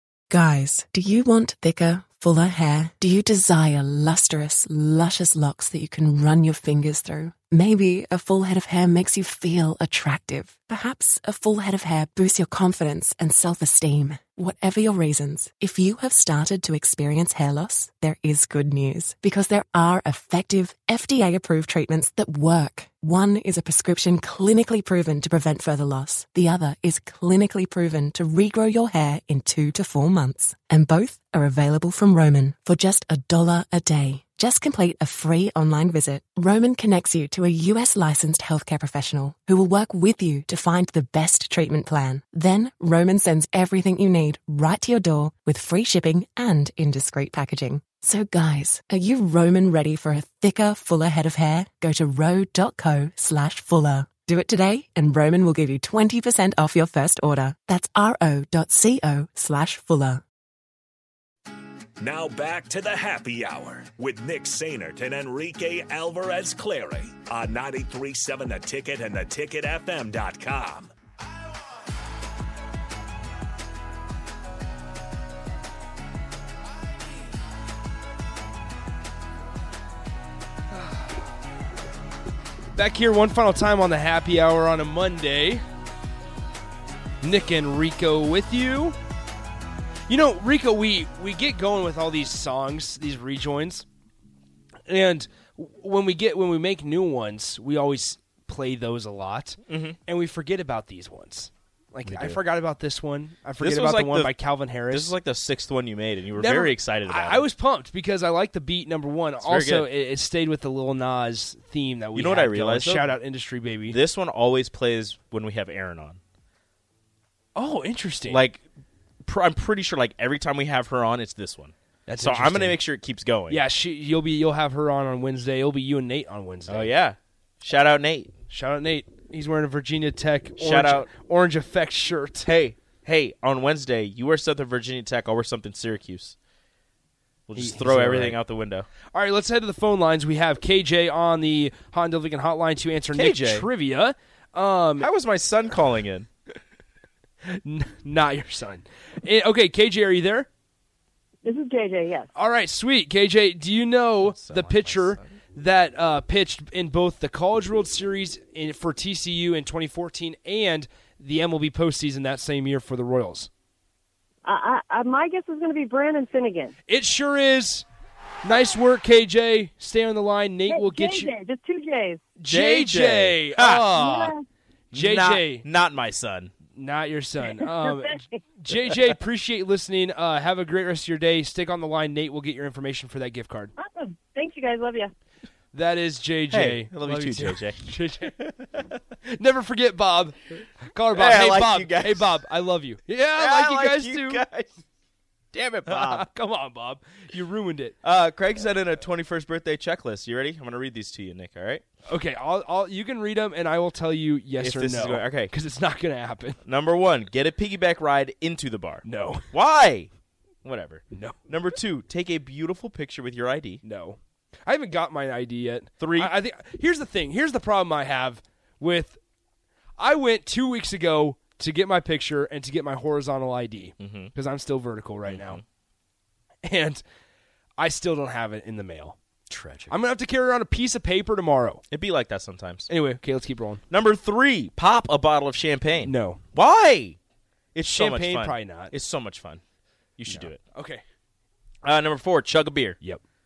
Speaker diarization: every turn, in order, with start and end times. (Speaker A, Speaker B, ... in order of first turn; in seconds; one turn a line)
Speaker A: 0.3-60.2
Speaker B: 62.0-70.9
Speaker C: 82.8-85.6
Speaker C: 87.2-89.0
Speaker C: 90.1-93.9
Speaker C: 94.9-105.2
Speaker D: 99.7-100.0
Speaker D: 102.0-102.4
Speaker D: 103.6-104.3
Speaker D: 104.9-107.5
Speaker C: 106.4-114.0
Speaker D: 109.4-109.9
Speaker D: 112.2-113.1
Speaker D: 113.9-116.2
Speaker C: 117.5-118.4
Speaker D: 118.3-118.6
Speaker D: 119.2-123.6
Speaker C: 122.1-122.8
Speaker C: 123.5-126.9
Speaker D: 126.7-128.3
Speaker C: 128.5-132.5
Speaker D: 130.6-131.1
Speaker D: 132.4-136.4
Speaker D: 137.5-138.9
Speaker C: 137.6-138.4
Speaker C: 139.1-145.1
Speaker D: 143.1-143.7
Speaker D: 145.0-146.3
Speaker C: 147.5-150.5
Speaker E: 151.4-152.3
Speaker C: 152.4-163.5
Speaker D: 154.2-155.4
Speaker E: 164.4-166.7
Speaker C: 166.9-167.9
Speaker C: 168.4-171.3
Speaker E: 170.7-172.2
Speaker C: 172.4-174.3
Speaker D: 172.5-173.9
Speaker E: 174.0-174.4
Speaker C: 174.9-175.6
Speaker D: 174.9-176.5
Speaker C: 176.8-183.7
Speaker E: 183.8-185.1
Speaker C: 185.7-188.5
Speaker D: 186.5-187.8
Speaker C: 189.2-194.4
Speaker D: 191.1-192.4
Speaker D: 193.3-194.7
Speaker D: 195.5-196.2
Speaker C: 195.9-198.0
Speaker D: 198.0-201.8
Speaker C: 202.1-206.6
Speaker D: 204.6-205.5
Speaker D: 206.7-210.1
Speaker C: 209.1-209.5
Speaker D: 210.6-213.8
Speaker C: 211.1-211.4
Speaker C: 213.8-219.2
Speaker D: 216.0-216.3
Speaker C: 220.0-225.6
Speaker D: 224.0-224.3
Speaker D: 225.3-225.6
Speaker C: 226.6-227.0
Speaker C: 227.8-229.2
Speaker D: 229.5-229.9
Speaker C: 229.9-231.8
Speaker D: 231.9-232.9
Speaker C: 232.9-233.8
Speaker D: 233.9-237.2
Speaker C: 236.0-236.4
Speaker D: 237.8-239.6
Speaker C: 237.8-238.9
Speaker D: 240.2-240.6
Speaker C: 240.3-241.0
Speaker D: 241.8-243.0